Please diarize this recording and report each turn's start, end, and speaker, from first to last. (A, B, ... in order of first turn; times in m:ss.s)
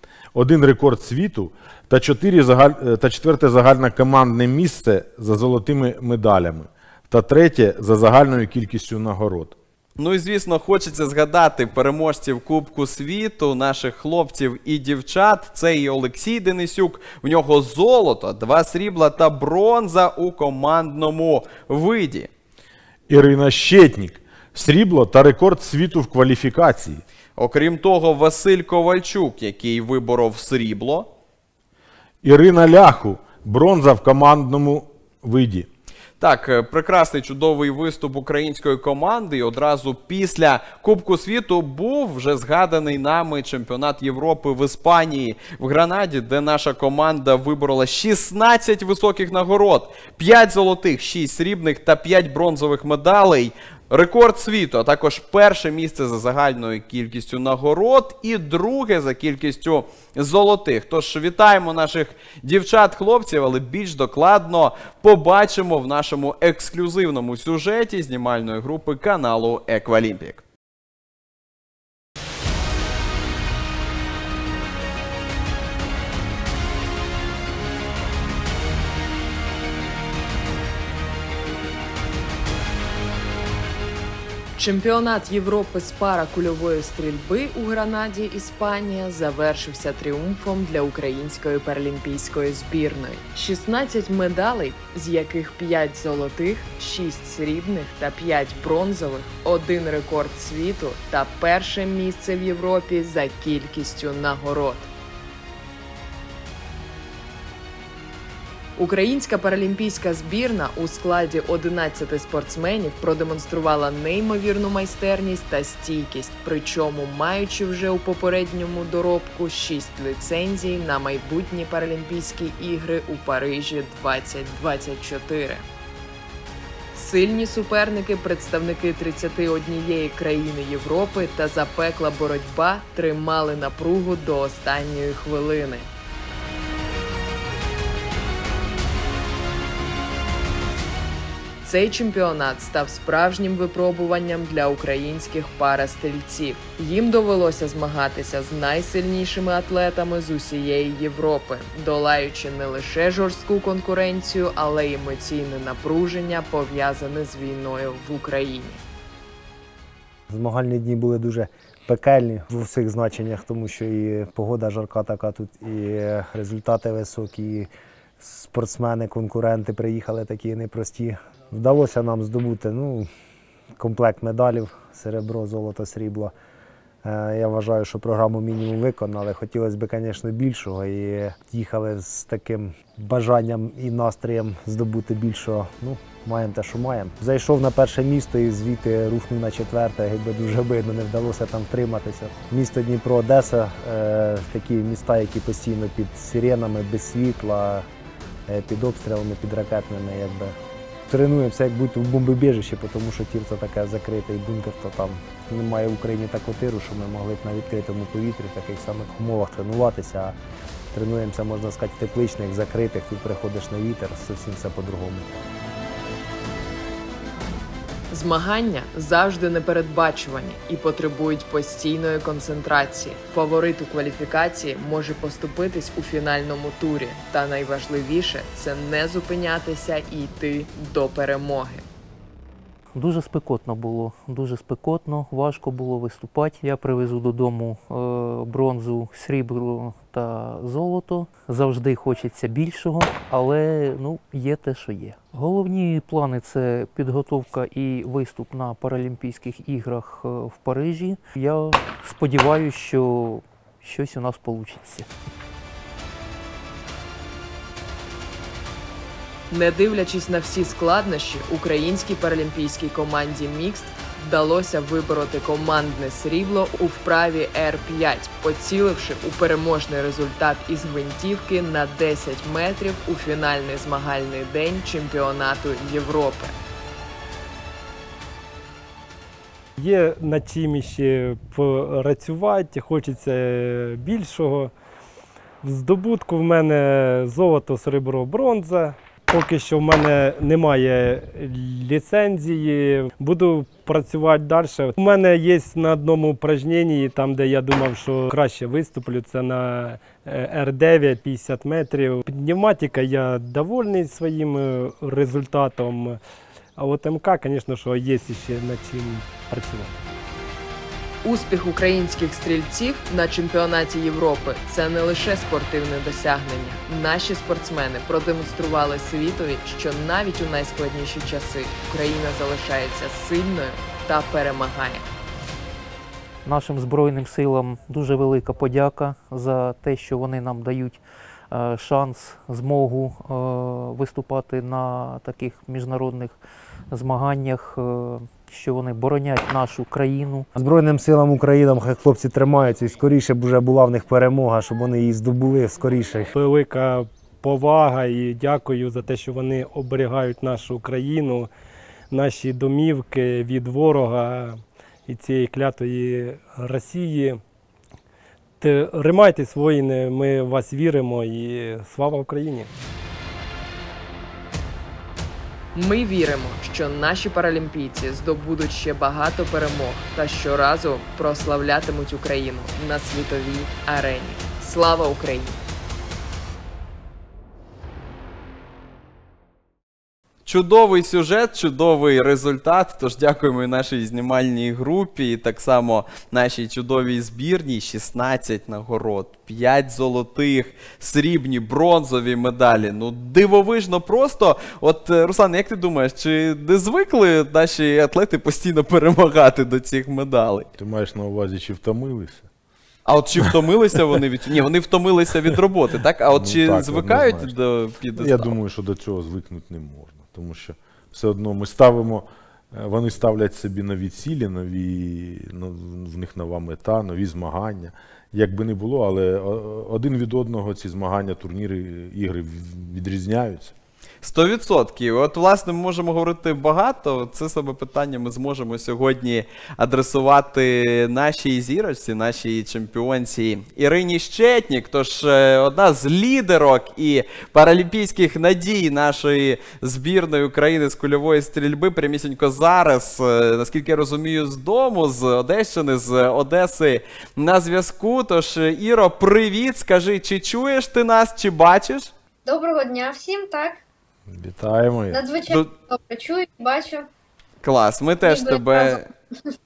0:00.3-0:09.6 A
0:10.0-0:22.3 B
0:23.1-0:27.0 A
0:27.4-0:31.1 B
0:32.2-0:35.7 A
0:36.2-1:10.4 B
1:24.6-1:44.9 C
1:48.8-2:05.6 C
2:06.9-2:15.9 C
2:21.6-2:38.8 C
2:40.3-2:53.1 D
2:53.8-2:56.3 D
2:57.0-3:17.8 D
3:18.5-3:20.5 D
3:21.1-3:30.4 D
3:30.9-3:35.2 D
3:38.1-3:51.8 C
3:52.9-4:15.1 E
4:19.5-4:36.6 C
4:39.8-4:44.7 F
4:45.6-5:06.2 F
5:06.8-5:09.9 F
5:11.2-5:25.1 C
5:26.4-5:36.4 E
5:36.9-5:40.5 E
5:40.6-5:46.3 D
5:46.3-5:51.5 F
5:52.1-5:57.4 F
5:58.6-6:02.7 F
6:05.7-6:15.6 C
6:20.4-6:40.7 B
6:40.8-6:42.4 A
6:43.0-6:48.5 B
6:46.3-6:47.5 A
6:48.2-7:03.7 A
7:04.2-7:32.1 B
7:32.4-7:33.8 G
7:34.3-7:35.2 A
7:35.1-7:37.1 G
7:37.6-7:39.1 B
7:38.2-7:39.0 G